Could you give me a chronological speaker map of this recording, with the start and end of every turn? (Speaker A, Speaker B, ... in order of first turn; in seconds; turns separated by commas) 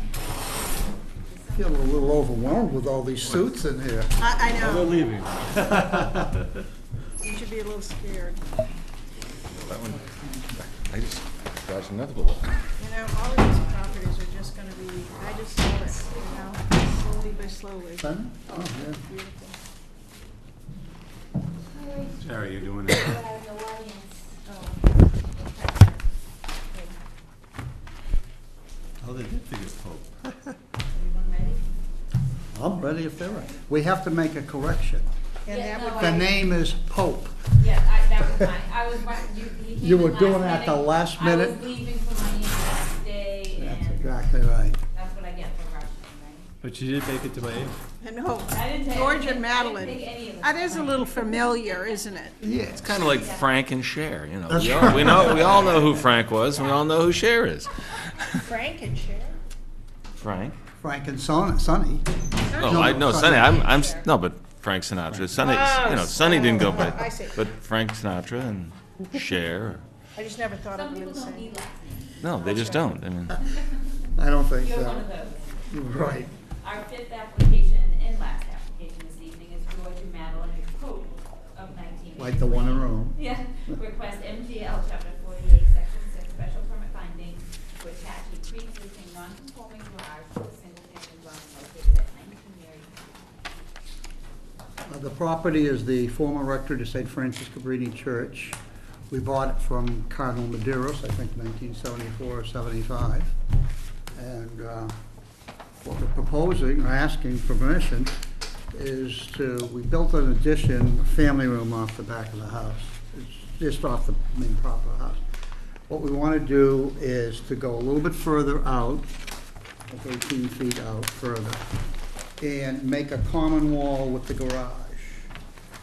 Speaker A: 1.3-2.0, Speaker B: 1.5-4.2, Speaker C: 4.2-4.9, Speaker D: 4.5-6.5, Speaker C: 7.2-8.4, Speaker E: 9.5-12.5, Speaker C: 12.8-19.6, Speaker A: 16.0-17.5, Speaker B: 18.0-19.0, Speaker A: 21.8-22.2, Speaker D: 22.2-23.2, Speaker A: 22.9-24.2, Speaker C: 24.5-24.8, Speaker A: 25.2-26.0, Speaker D: 29.0-30.3, Speaker A: 30.9-31.6, Speaker B: 32.5-35.1, Speaker C: 35.5-36.3, Speaker A: 35.5-36.3, Speaker B: 36.0-37.4, Speaker A: 37.6-44.1, Speaker B: 39.8-41.7, Speaker B: 43.6-44.8, Speaker A: 44.9-46.5, Speaker D: 46.6-47.8, Speaker C: 48.0-52.4, Speaker A: 48.5-52.0, Speaker B: 52.4-52.9, Speaker E: 52.7-58.4, Speaker A: 53.1-53.5, Speaker B: 54.5-55.9, Speaker C: 58.4-59.4, Speaker E: 60.2-60.6, Speaker B: 60.8-63.9, Speaker C: 62.5-63.0, Speaker E: 62.6-69.8, Speaker A: 63.6-64.1, Speaker C: 65.4-67.4, Speaker C: 70.2-71.5, Speaker A: 70.7-73.8, Speaker E: 72.2-73.4, Speaker C: 72.4-72.9, Speaker B: 74.2-75.1, Speaker A: 74.6-93.2, Speaker B: 75.7-76.3, Speaker B: 82.2-83.2, Speaker B: 94.9-98.6, Speaker B: 99.1-103.3, Speaker B: 104.1-104.9, Speaker B: 105.8-108.1, Speaker B: 108.7-115.2, Speaker B: 115.9-119.1, Speaker B: 119.9-121.6, Speaker B: 122.4-125.3